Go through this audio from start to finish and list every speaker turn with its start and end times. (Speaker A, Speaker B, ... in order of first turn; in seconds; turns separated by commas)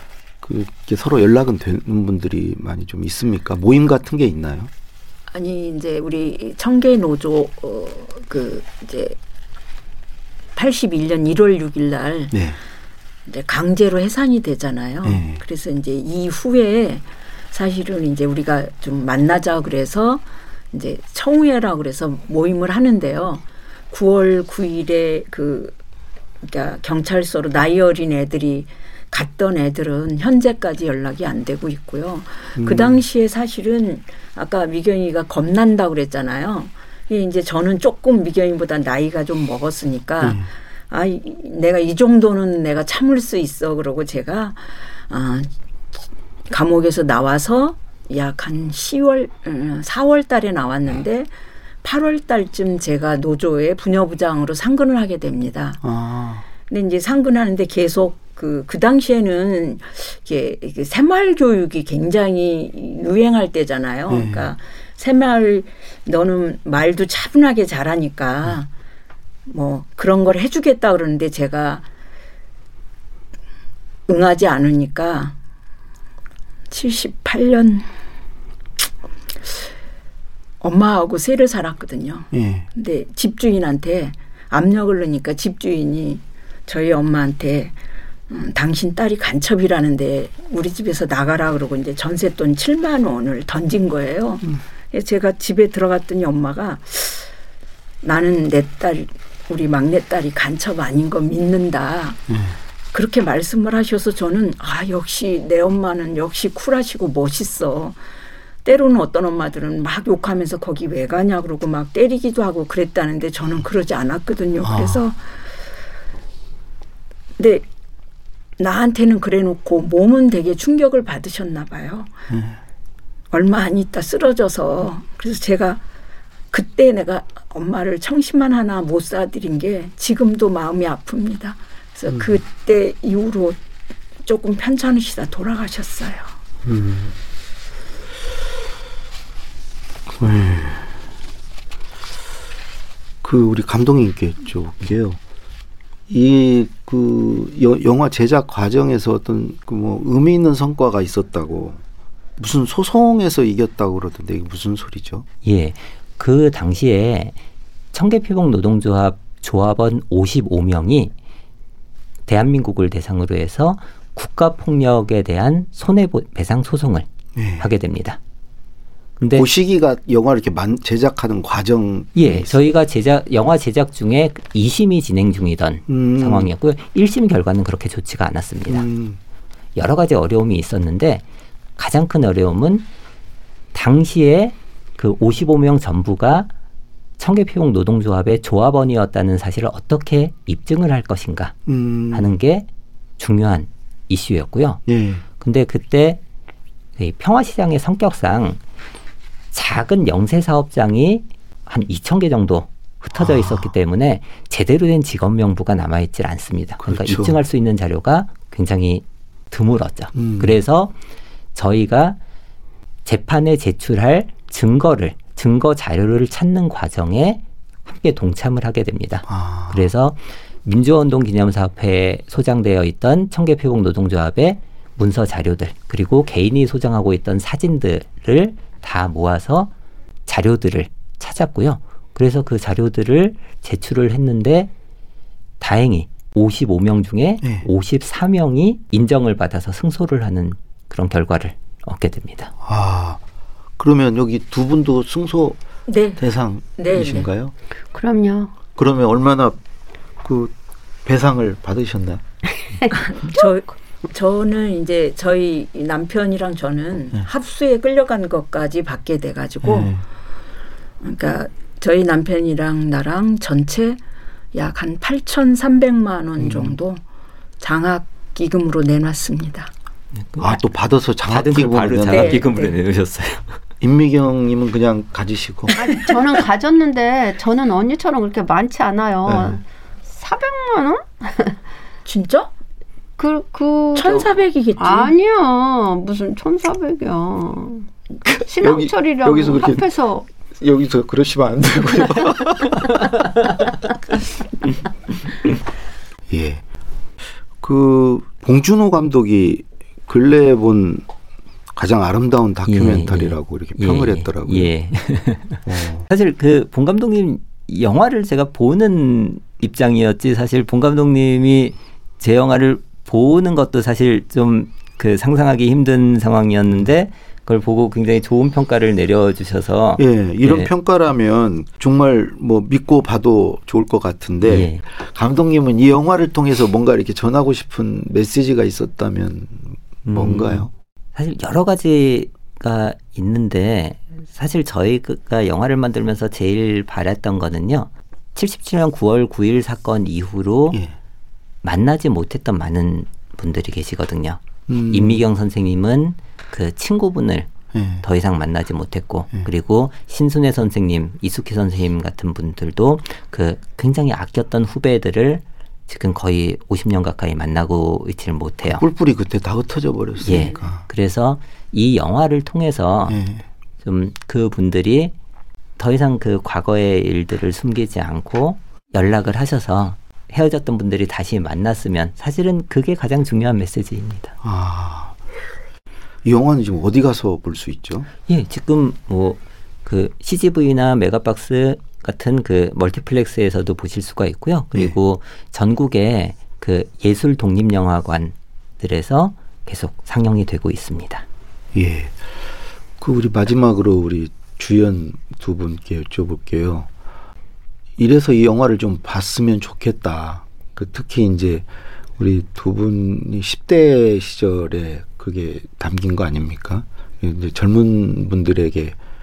Speaker A: 0.4-4.7, Speaker B: 5.3-9.2, Speaker B: 10.6-12.4, Speaker A: 12.3-12.6, Speaker B: 13.3-25.7, Speaker A: 15.0-15.4, Speaker B: 26.4-45.5, Speaker A: 32.5-33.0, Speaker A: 40.2-40.5, Speaker B: 46.5-51.3, Speaker B: 51.8-55.8, Speaker A: 55.8-56.5, Speaker B: 56.7-68.7, Speaker A: 64.1-64.5, Speaker B: 69.5-71.8, Speaker B: 74.1-75.3, Speaker B: 76.7-77.9, Speaker B: 80.6-87.8, Speaker A: 82.3-82.7, Speaker B: 88.3-97.3, Speaker B: 98.0-102.2, Speaker A: 102.3-102.6, Speaker B: 102.9-108.0, Speaker B: 108.6-115.2, Speaker A: 114.6-115.0, Speaker B: 117.4-117.6, Speaker B: 118.6-122.1, Speaker A: 122.3-122.6, Speaker B: 123.3-125.8, Speaker B: 126.5-133.6, Speaker B: 134.2-136.3, Speaker A: 136.6-137.1, Speaker A: 140.2-140.9, Speaker A: 143.2-145.2, Speaker A: 146.1-151.8, Speaker A: 152.4-155.2, Speaker C: 155.4-157.3, Speaker C: 157.9-161.1, Speaker C: 162.3-167.1, Speaker A: 167.3-167.7, Speaker C: 167.6-168.2, Speaker C: 169.2-169.5, Speaker A: 169.3-172.6, Speaker C: 172.2-178.8, Speaker A: 175.9-176.5, Speaker A: 178.7-179.2, Speaker C: 179.8-181.2, Speaker C: 181.8-182.8, Speaker C: 183.7-186.5, Speaker C: 187.2-191.5, Speaker A: 191.7-192.3, Speaker C: 192.1-192.7, Speaker C: 193.2-194.8, Speaker A: 194.9-195.2, Speaker C: 195.4-196.2, Speaker C: 197.0-198.6, Speaker C: 199.5-210.9, Speaker A: 203.2-203.7, Speaker A: 206.8-207.3, Speaker A: 210.1-210.6, Speaker C: 211.5-212.2, Speaker C: 213.0-229.7, Speaker A: 219.3-219.9, Speaker C: 230.3-234.7, Speaker C: 235.6-242.5, Speaker A: 237.4-237.7, Speaker A: 242.6-243.2, Speaker A: 243.8-245.6, Speaker B: 245.9-246.2, Speaker A: 246.2-247.5, Speaker B: 246.8-247.3, Speaker D: 247.9-248.5, Speaker A: 248.8-249.6, Speaker A: 250.2-250.5, Speaker A: 251.0-252.2, Speaker B: 252.9-259.9, Speaker A: 259.6-260.0, Speaker B: 261.0-264.0, Speaker B: 264.5-267.0, Speaker A: 266.4-266.8, Speaker B: 267.6-269.7, Speaker C: 270.2-270.6, Speaker A: 270.4-272.4, Speaker C: 271.3-273.5, Speaker B: 272.1-272.8, Speaker A: 273.8-275.7, Speaker D: 275.7-281.6, Speaker A: 279.2-279.6, Speaker B: 282.0-282.5, Speaker D: 283.2-287.9, Speaker B: 283.9-285.1, Speaker A: 288.3-289.8, Speaker D: 288.4-290.3, Speaker A: 290.6-293.1, Speaker A: 296.3-296.6, Speaker A: 297.6-301.1, Speaker A: 301.7-304.7, Speaker C: 302.7-320.7, Speaker A: 305.6-306.1, Speaker A: 320.0-330.7, Speaker C: 324.4-324.8, Speaker C: 330.0-340.8, Speaker C: 341.6-347.5, Speaker A: 344.7-345.2, Speaker A: 347.7-348.0, Speaker C: 348.0-358.8, Speaker A: 358.7-360.8, Speaker C: 360.2-363.2, Speaker A: 363.1-363.4, Speaker C: 363.8-365.1, Speaker C: 365.8-374.3, Speaker A: 374.4-375.2, Speaker A: 376.2-378.1, Speaker C: 378.3-391.2, Speaker A: 391.7-392.2, Speaker A: 393.0-396.9, Speaker A: 398.0-409.0